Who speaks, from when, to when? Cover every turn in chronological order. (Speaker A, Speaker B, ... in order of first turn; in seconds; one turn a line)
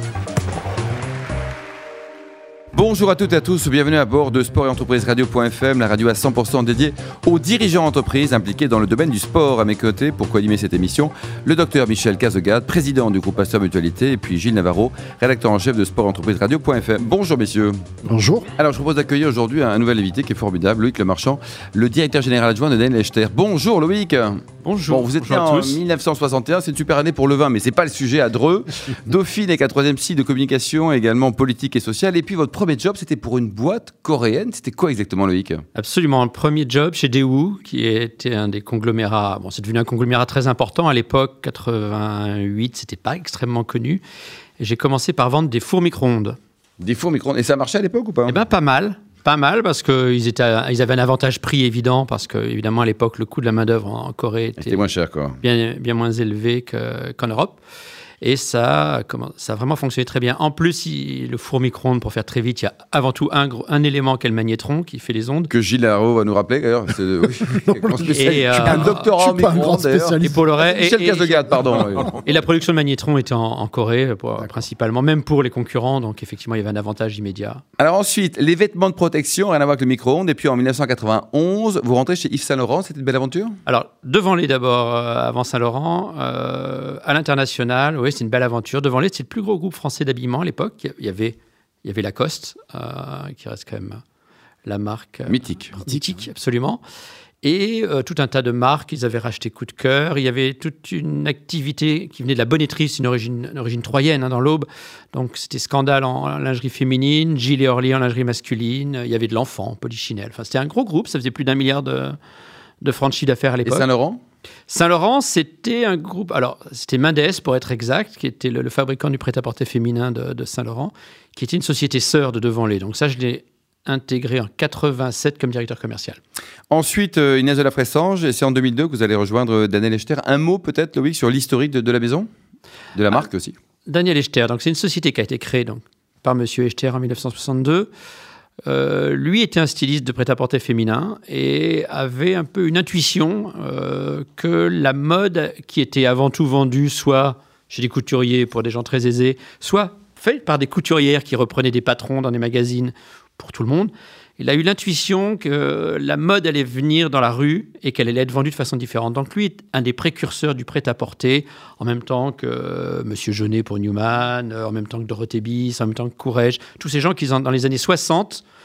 Speaker A: 2.7-17.8
Speaker B: 18.0-18.5
Speaker A: 18.6-35.6
Speaker C: 24.6-25.8
Speaker C: 35.7-44.0
Speaker C: 44.6-46.4
Speaker A: 46.8-48.4
Speaker C: 48.2-54.9
Speaker A: 54.6-55.4
Speaker C: 55.4-57.6
Speaker C: 58.2-65.5
Speaker A: 65.5-70.2
Speaker B: 67.5-70.7
Speaker C: 68.1-69.1
Speaker C: 70.2-77.6
Speaker A: 70.7-72.1
Speaker A: 77.8-83.6
Speaker C: 83.7-94.0
Speaker C: 94.6-96.8
Speaker A: 95.3-95.8
Speaker B: 95.9-96.2
Speaker C: 97.4-112.2
Speaker C: 112.8-113.9
Speaker A: 113.6-114.2
Speaker C: 114.7-126.2
Speaker A: 126.7-132.3
Speaker A: 132.9-133.5
Speaker C: 133.8-137.9
Speaker C: 138.7-168.4